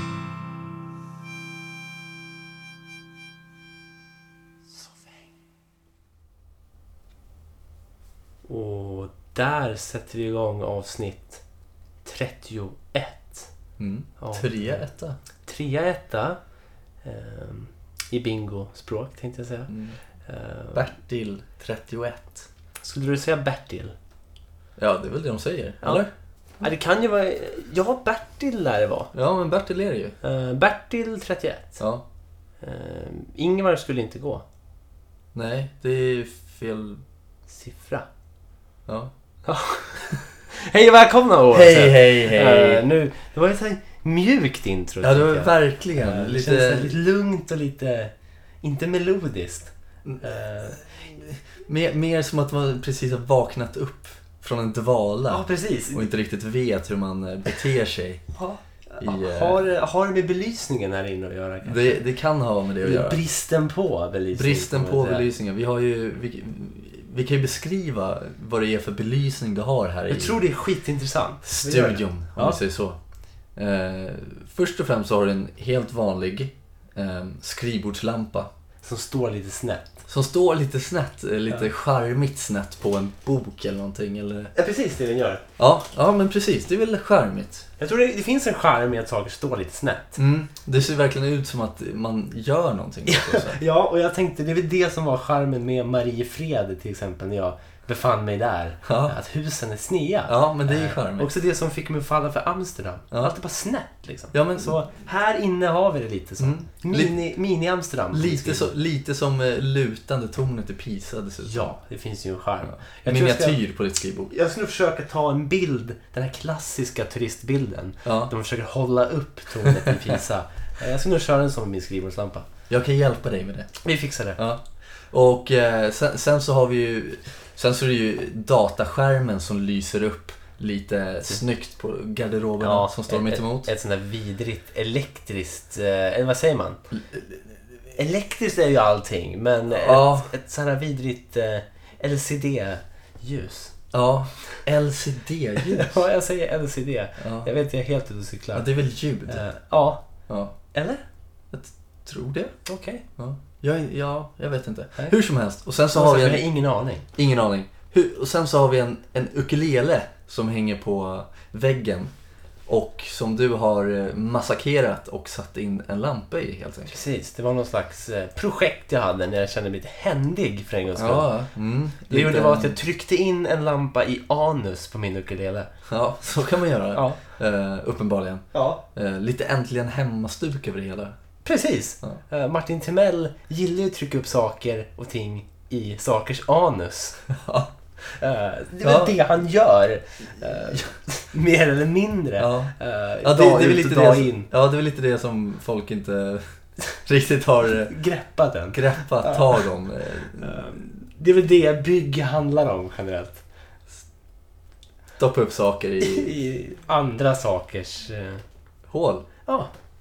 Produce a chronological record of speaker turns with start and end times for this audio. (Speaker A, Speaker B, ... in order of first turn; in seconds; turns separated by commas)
Speaker A: 8.5-11.4, Speaker A: 12.0-13.5, Speaker B: 13.8-15.2, Speaker A: 14.2-14.8, Speaker A: 15.5-16.4, Speaker A: 17.0-19.7, Speaker B: 19.7-20.0, Speaker A: 20.2-20.9, Speaker B: 20.7-22.5, Speaker A: 22.8-24.0, Speaker B: 24.8-26.1, Speaker A: 26.6-29.1, Speaker B: 29.1-30.2, Speaker A: 30.2-31.8, Speaker B: 31.8-32.0, Speaker A: 32.6-34.4, Speaker B: 35.3-37.0, Speaker A: 37.5-38.1, Speaker A: 39.5-50.8, Speaker B: 41.5-42.8, Speaker B: 45.0-47.0, Speaker B: 50.8-58.3, Speaker A: 55.3-56.1, Speaker A: 58.4-62.0, Speaker B: 59.0-59.7, Speaker B: 61.6-63.2, Speaker A: 62.8-65.3, Speaker B: 64.3-70.4, Speaker A: 70.1-72.6, Speaker B: 71.5-73.0, Speaker B: 73.6-78.5, Speaker A: 78.8-80.0, Speaker B: 80.1-84.5, Speaker A: 84.5-85.4, Speaker B: 85.6-87.7, Speaker A: 87.8-90.2, Speaker B: 90.2-93.6, Speaker A: 93.1-108.7, Speaker B: 98.8-99.2, Speaker B: 100.3-101.3, Speaker B: 104.3-104.9, Speaker B: 106.4-107.2, Speaker B: 108.1-111.8, Speaker A: 111.4-113.6, Speaker B: 112.6-114.3, Speaker A: 114.3-122.5, Speaker B: 118.0-118.3, Speaker B: 119.7-120.1, Speaker B: 122.7-123.8, Speaker A: 123.8-124.4, Speaker B: 124.4-133.7, Speaker A: 132.6-136.8, Speaker B: 136.9-137.4, Speaker A: 138.0-143.8, Speaker B: 139.7-140.3, Speaker B: 143.9-146.1, Speaker A: 145.6-148.7, Speaker B: 147.2-147.5, Speaker B: 148.5-149.4, Speaker A: 149.3-150.0, Speaker B: 150.3-150.6, Speaker A: 150.7-151.0, Speaker B: 151.5-152.6, Speaker A: 152.7-153.0, Speaker B: 153.2-156.5, Speaker A: 155.9-157.1, Speaker B: 157.2-162.1, Speaker B: 162.7-167.0, Speaker A: 166.9-171.3, Speaker B: 171.0-172.8, Speaker A: 172.1-175.7, Speaker B: 175.9-181.2, Speaker A: 178.5-178.8, Speaker A: 181.4-187.2, Speaker B: 187.3-187.7, Speaker A: 188.0-194.5, Speaker B: 188.8-189.2, Speaker B: 192.4-198.0, Speaker A: 197.9-199.7, Speaker B: 198.7-200.9, Speaker A: 200.3-203.4, Speaker B: 205.2-206.3, Speaker A: 206.0-208.4, Speaker B: 208.9-209.3, Speaker A: 209.5-209.7